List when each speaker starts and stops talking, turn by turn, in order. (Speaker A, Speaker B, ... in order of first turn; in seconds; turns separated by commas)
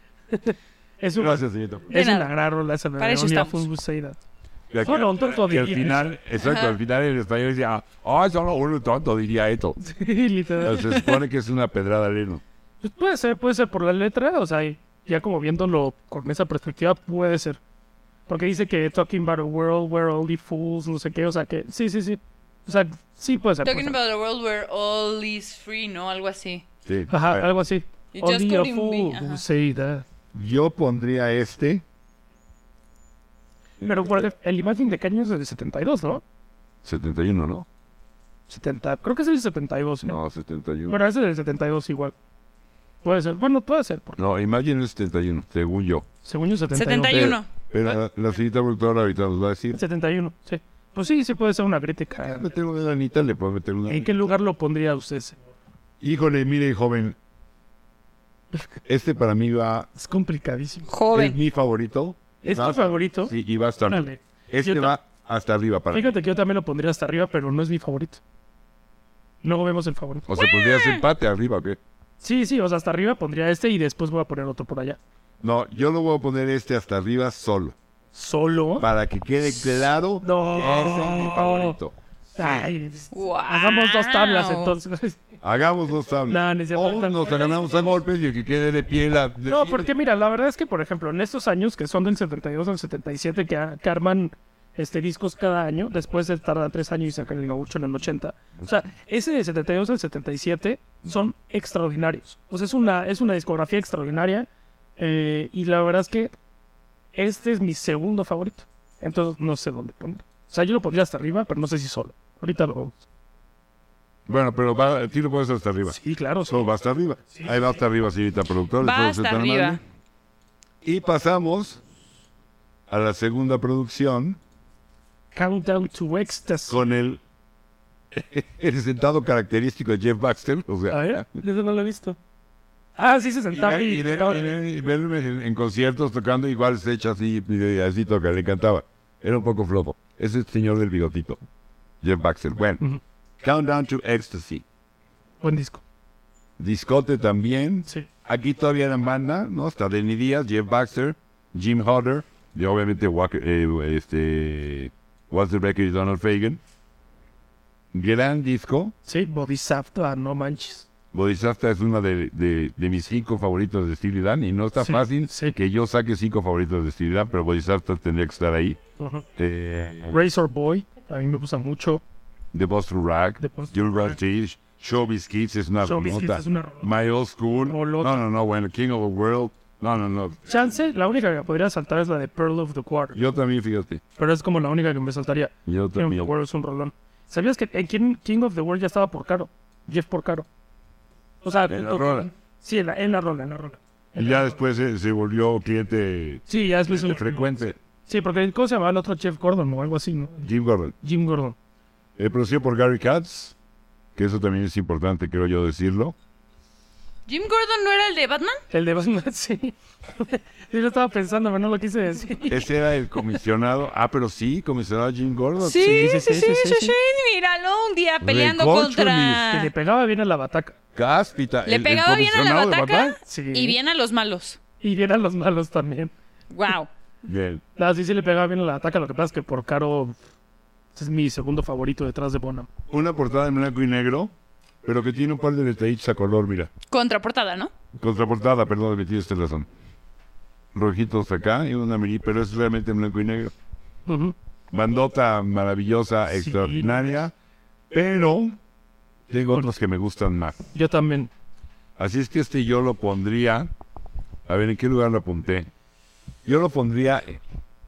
Speaker A: 0.3-4.2, Speaker B: 1.2-1.9, Speaker C: 1.9-2.3, Speaker C: 3.0-3.7, Speaker B: 4.7-9.8, Speaker A: 4.8-6.1, Speaker C: 6.4-6.8, Speaker A: 9.8-11.1, Speaker B: 10.6-12.4, Speaker A: 12.8-17.6, Speaker A: 18.3-24.0, Speaker C: 23.6-26.6, Speaker B: 26.9-27.5, Speaker A: 27.1-30.0, Speaker C: 28.1-29.4, Speaker B: 30.3-31.8, Speaker A: 33.8-36.2, Speaker B: 36.9-37.7, Speaker A: 38.5-40.2, Speaker B: 40.1-41.0, Speaker A: 40.9-42.1, Speaker A: 43.0-44.2, Speaker B: 44.2-46.1, Speaker A: 46.2-47.4, Speaker C: 46.7-47.5, Speaker B: 47.1-49.8, Speaker A: 49.8-52.5, Speaker B: 52.2-54.1, Speaker A: 53.9-55.4, Speaker B: 56.0-57.2, Speaker B: 58.9-59.9, Speaker A: 60.0-60.9, Speaker C: 60.9-61.4, Speaker B: 61.1-66.0, Speaker A: 62.4-63.3, Speaker A: 63.9-64.9, Speaker A: 65.9-68.2, Speaker A: 69.4-70.3, Speaker B: 70.3-71.8, Speaker C: 70.4-71.0, Speaker A: 72.2-75.0, Speaker B: 75.4-77.8, Speaker A: 78.1-78.9, Speaker B: 78.8-82.0, Speaker A: 80.2-81.8, Speaker A: 82.4-85.2, Speaker C: 83.1-84.8, Speaker B: 85.4-89.9, Speaker A: 86.3-87.4, Speaker A: 89.5-104.5, Speaker A: 105.0-106.3, Speaker A: 107.2-113.0, Speaker B: 114.3-116.0, Speaker A: 115.9-116.6, Speaker B: 116.5-119.8, Speaker C: 118.8-119.8, Speaker B: 120.8-121.8, Speaker B: 122.9-124.4, Speaker A: 125.3-126.8, Speaker B: 126.7-127.2, Speaker B: 128.1-131.3, Speaker A: 130.9-132.2, Speaker A: 133.0-134.5, Speaker B: 133.5-141.4, Speaker B: 142.0-142.8, Speaker B: 143.4-144.6, Speaker A: 145.4-145.8, Speaker B: 146.6-156.6, Speaker B: 157.9-158.9, Speaker A: 159.1-160.9, Speaker B: 161.1-168.8, Speaker A: 164.8-165.6, Speaker A: 169.0-169.2, Speaker B: 169.4-170.2, Speaker A: 170.1-172.0, Speaker B: 172.5-180.4, Speaker A: 173.4-174.1, Speaker A: 175.8-176.9, Speaker A: 177.7-178.2, Speaker A: 180.5-183.2, Speaker B: 183.1-184.0, Speaker A: 184.2-190.5, Speaker B: 185.7-186.3, Speaker A: 191.4-194.6, Speaker B: 191.7-192.3, Speaker B: 194.2-197.8, Speaker A: 196.5-197.5, Speaker A: 198.1-200.5, Speaker B: 200.4-200.9, Speaker A: 201.0-201.6, Speaker B: 202.2-203.6, Speaker B: 204.2-206.2, Speaker C: 207.3-208.6, Speaker A: 208.7-212.7, Speaker B: 212.5-216.3, Speaker C: 215.6-219.7, Speaker A: 215.7-216.9, Speaker B: 218.2-219.5, Speaker A: 219.5-220.8, Speaker B: 220.9-223.2, Speaker C: 221.7-224.6, Speaker A: 223.2-223.8, Speaker A: 224.8-226.1, Speaker C: 226.5-226.9, Speaker B: 227.2-227.6, Speaker A: 227.8-230.2, Speaker A: 231.0-232.7, Speaker B: 232.9-234.3, Speaker B: 234.8-236.7, Speaker C: 236.9-237.7, Speaker B: 237.9-239.7, Speaker B: 240.7-243.5, Speaker A: 244.1-244.3, Speaker B: 244.7-247.3, Speaker A: 246.3-246.9, Speaker B: 247.9-248.6, Speaker B: 249.3-250.6, Speaker A: 250.7-251.3, Speaker B: 252.0-253.7, Speaker B: 254.5-255.7, Speaker B: 256.4-257.4